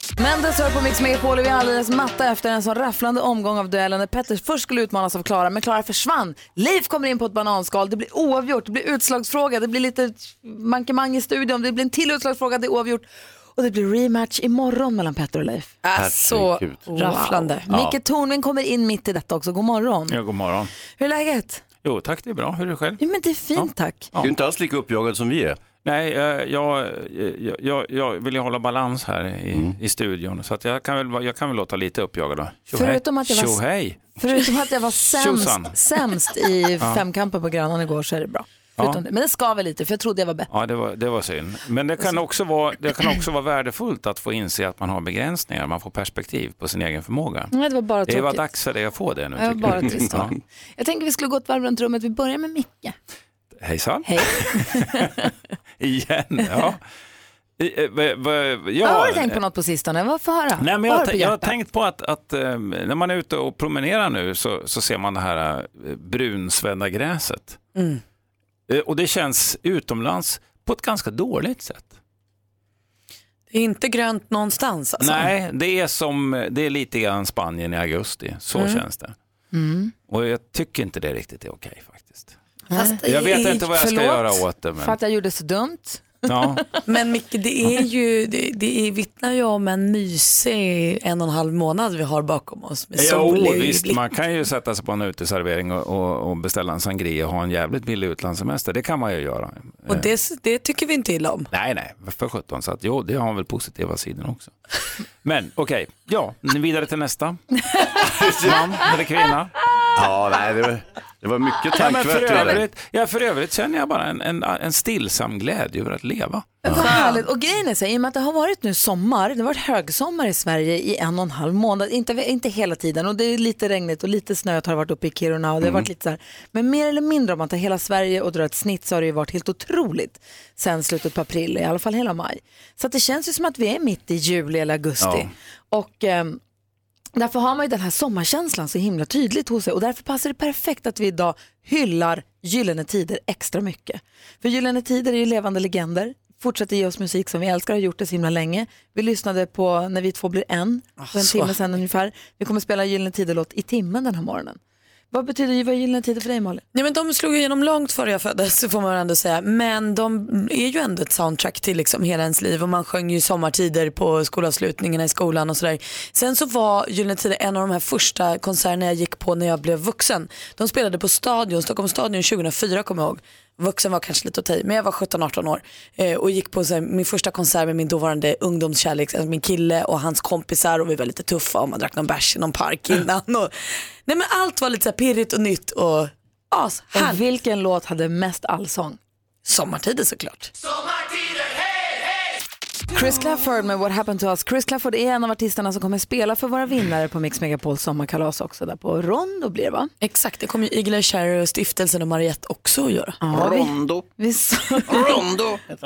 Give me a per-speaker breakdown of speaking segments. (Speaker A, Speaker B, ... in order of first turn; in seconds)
Speaker A: 0.2-15.8, 16.9-20.2, 21.0-21.6, 23.0-24.1, 32.7-33.6, 34.2-40.5, 47.5-48.5, 49.4-52.9, 54.0-55.1, 58.8-61.5, 79.5-79.9, 82.7-86.6, 116.6-136.4, 137.2-154.6, 155.1-156.6, 186.9-189.0, 192.9-199.9, 203.2-205.2
Speaker B: 15.8-17.6, 67.8-68.0, 73.5-75.3, 78.5-78.8, 82.7-83.5, 86.8-94.0, 99.9-101.5, 116.8-117.2, 151.0-151.5, 156.7-187.2, 189.4-190.5, 200.0-203.2
Speaker C: 15.9-16.8, 17.7-17.9, 24.2-25.6, 108.0-108.9, 109.9-112.6, 203.3-204.1, 204.9-205.7
Speaker D: 20.1-20.7, 21.8-23.0, 23.6-24.3, 25.8-34.1, 35.1-35.8, 40.5-47.5, 48.1-50.3, 53.6-56.8, 57.6-59.4, 60.6-67.6, 68.7-72.0, 75.0-79.1, 80.1-82.4, 83.0-85.0, 86.2-86.6, 92.9-100.1, 101.5-104.5, 105.2-107.4, 108.4-109.5, 111.7-116.6, 135.0-135.3